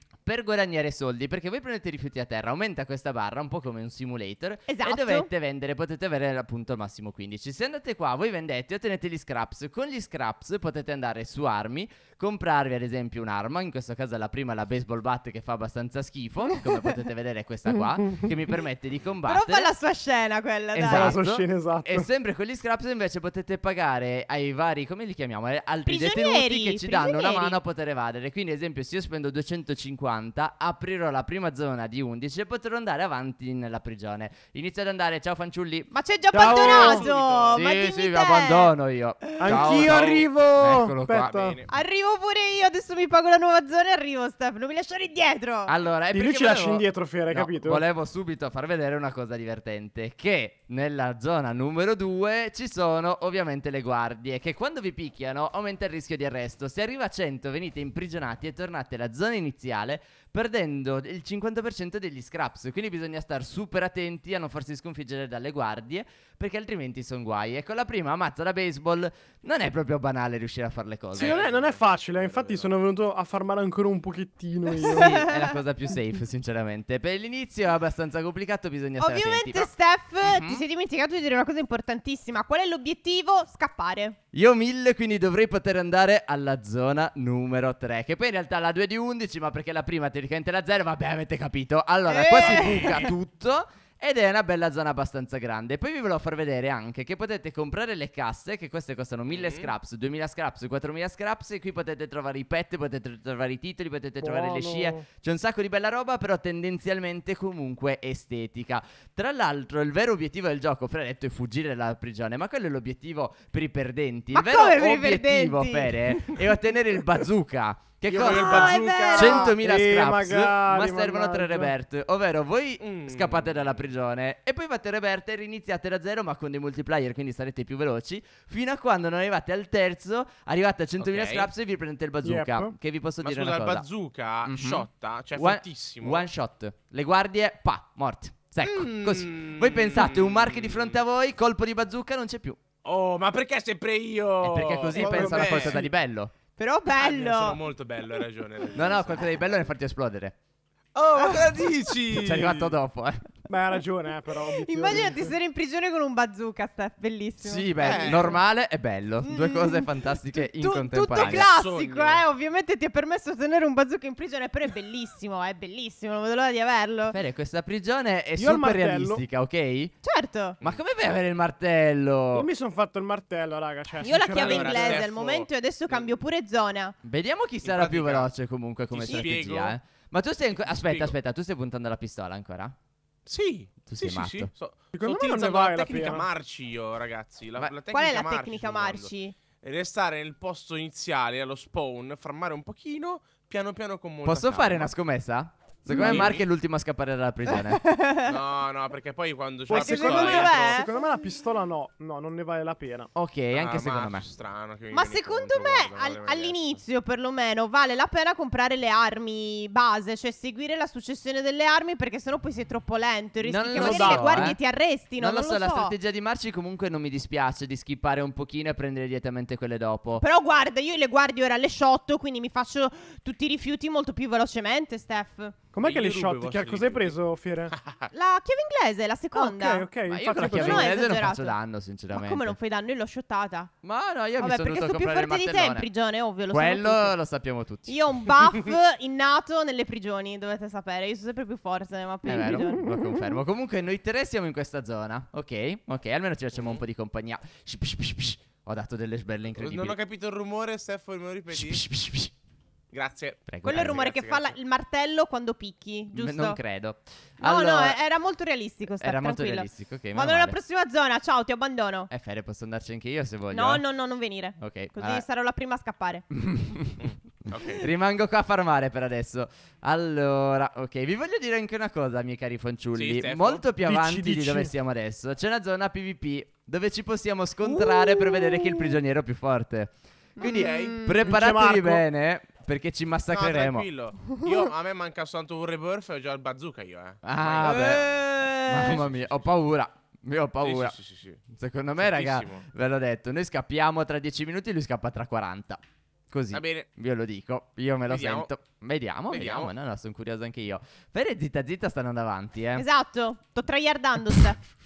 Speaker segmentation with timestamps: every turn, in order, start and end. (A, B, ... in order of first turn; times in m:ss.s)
0:00.2-0:19.7 A
0:04.7-0:05.3 B
0:19.3-0:21.2 B
0:20.7-0:35.9 A
0:20.9-0:22.1 C
0:25.9-0:27.6 B
0:35.9-0:38.7 B
0:36.3-0:37.1 C
0:36.4-0:37.6 D
0:37.5-0:41.5 A
0:39.4-0:41.6 C
0:39.6-0:40.2 D
0:41.2-0:41.7 D
0:41.7-0:45.7 B
0:45.7-1:11.4 A
0:46.1-0:47.8 C
1:11.1-1:12.7 D
1:11.2-1:15.2 C
1:14.8-1:15.5 B
1:14.9-1:19.7 A
1:19.0-1:24.2 B
1:20.2-1:20.6 A
1:24.3-2:13.9 A
1:32.1-1:33.1 B
1:32.4-1:33.1 D
1:39.3-1:39.7 D
1:44.2-1:45.1 C
1:54.3-1:56.4 B
1:58.1-1:59.6 D
1:58.2-1:59.5 B
1:59.6-2:01.7 C
2:02.8-2:03.8 D
2:11.0-2:11.5 D
2:12.2-2:12.8 C
2:13.2-2:16.3 D
2:14.5-2:22.6 A
2:18.6-2:21.0 D
2:22.8-2:25.8 D
2:24.4-2:26.3 A
2:25.0-2:25.9 C
2:26.6-2:27.6 B
2:27.0-2:29.5 D
2:28.7-2:30.4 A
2:31.0-2:32.8 D
2:31.2-2:31.5 B
2:32.1-2:33.3 A
2:33.5-2:35.3 C
2:34.5-2:38.4 B
2:37.4-2:41.5 A
2:37.8-2:38.3 D
2:39.2-2:47.2 B
2:41.2-2:42.2 D
2:47.1-2:49.9 A
2:48.4-2:49.2 C
2:50.0-2:50.6 B
2:50.6-2:52.5 A
2:52.3-2:55.0 C
2:54.0-2:57.0 B
2:54.3-2:56.1 D
2:57.0-3:02.8 A
2:57.6-2:58.3 D
2:58.9-2:59.8 D
3:00.6-3:01.2 D
3:03.3-3:09.1 D
3:03.9-3:04.5 A
3:04.9-3:06.3 C
3:07.9-3:09.4 B
3:09.6-3:14.9 D
3:14.2-3:17.9 A
3:15.9-3:16.3 C
3:15.9-3:16.4 D
3:17.6-3:18.3 B
3:18.2-3:20.8 D
3:19.7-3:23.1 C
3:19.7-3:20.9 B
3:23.2-3:24.3 A
3:23.5-3:26.6 D
3:24.9-3:35.9 B
3:33.4-3:34.6 A
3:33.8-3:34.6 C
3:35.2-3:40.2 A
3:40.2-3:45.6 B
3:45.7-3:47.7 C
3:45.8-3:47.2 D
3:47.7-3:48.1 D
3:48.1-3:51.6 B
3:49.3-3:51.0 C
3:50.1-3:52.6 A
3:52.1-3:53.7 B
3:53.8-3:55.9 A
3:54.4-3:57.2 B
3:56.5-3:58.0 A
3:57.9-4:03.2 B
4:02.3-4:10.0 A
4:09.6-4:11.8 D
4:11.5-4:12.3 A
4:12.9-4:14.6 D
4:13.5-4:14.0 A
4:13.6-4:16.6 B
4:16.1-4:18.0 A
4:17.4-4:22.1 B
4:19.0-4:20.6 A
4:22.1-4:23.8 A
4:23.5-4:26.2 B
4:24.6-4:25.2 A
4:26.3-4:43.9 A
4:27.0-4:27.9 D
4:33.0-4:33.6 D
4:33.8-4:34.7 C
4:37.6-4:39.0 B
4:40.4-4:41.3 B
4:40.4-4:41.0 D
4:41.2-4:42.0 C
4:43.3-4:48.1 D
4:47.2-4:51.0 A
4:47.6-4:49.0 B
4:48.8-4:49.5 D
4:50.6-4:51.4 D
4:51.5-5:02.8 A
4:52.0-4:52.7 D
4:56.5-4:56.9 D
4:58.1-4:58.5 D
4:59.3-4:59.7 D
5:02.8-5:04.6 B